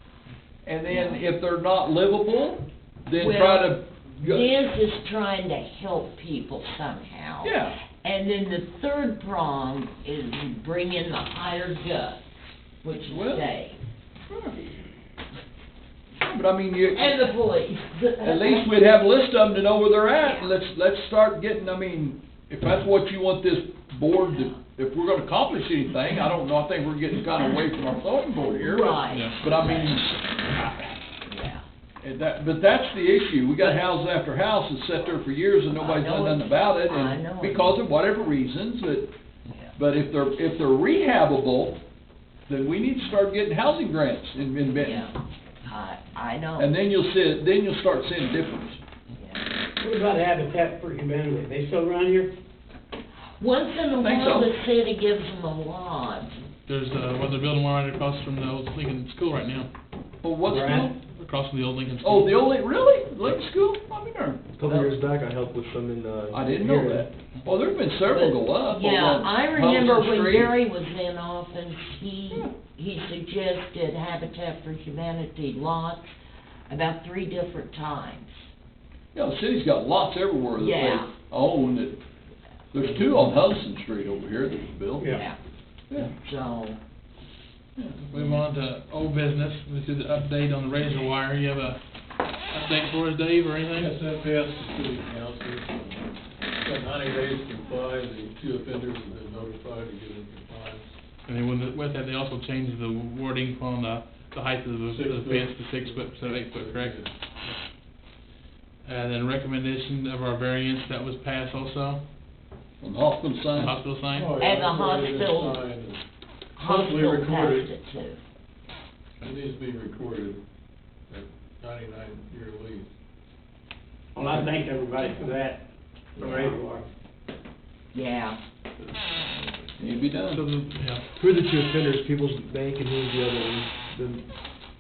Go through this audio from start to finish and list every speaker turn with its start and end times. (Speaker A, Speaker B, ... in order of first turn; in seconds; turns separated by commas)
Speaker A: 0.7-4.6, Speaker B: 0.9-1.2, Speaker B: 3.2-12.2, Speaker A: 7.4-7.8, Speaker B: 12.8-13.8, Speaker A: 13.1-13.4, Speaker A: 14.3-14.6, Speaker A: 16.2-17.4, Speaker B: 16.9-18.7, Speaker A: 18.2-30.9, Speaker B: 20.2-20.5, Speaker B: 24.2-24.6, Speaker B: 28.5-30.0, Speaker C: 29.1-29.4, Speaker B: 31.3-31.6, Speaker A: 32.0-39.1, Speaker B: 35.7-37.9, Speaker B: 39.5-39.8, Speaker A: 39.8-41.8, Speaker A: 42.5-45.1, Speaker B: 44.7-46.7, Speaker A: 46.6-48.8, Speaker B: 49.1-49.5, Speaker D: 49.8-52.3, Speaker B: 53.4-56.4, Speaker A: 53.9-54.5, Speaker C: 56.7-59.7, Speaker A: 60.2-60.9, Speaker D: 60.5-61.0, Speaker C: 61.1-62.4, Speaker A: 62.0-64.4, Speaker E: 64.6-67.1, Speaker B: 64.7-65.0, Speaker A: 66.3-70.5, Speaker B: 68.0-76.1, Speaker B: 76.7-78.5, Speaker A: 79.2-82.0, Speaker B: 80.6-81.1, Speaker A: 82.7-85.2, Speaker B: 85.1-85.4, Speaker B: 86.2-86.8, Speaker C: 88.1-91.8, Speaker C: 92.5-93.9, Speaker F: 93.7-100.9, Speaker C: 101.3-107.6, Speaker F: 104.9-107.1, Speaker C: 108.8-112.0, Speaker A: 112.8-113.8, Speaker C: 113.5-114.3, Speaker F: 114.1-116.0, Speaker B: 114.4-115.6, Speaker B: 116.6-118.2, Speaker F: 116.6-117.7, Speaker F: 119.2-120.4, Speaker F: 121.1-122.9, Speaker D: 124.2-125.7, Speaker D: 126.2-126.9, Speaker B: 126.2-126.5, Speaker B: 127.9-128.4, Speaker A: 129.8-130.4, Speaker C: 130.2-131.1, Speaker E: 131.2-134.2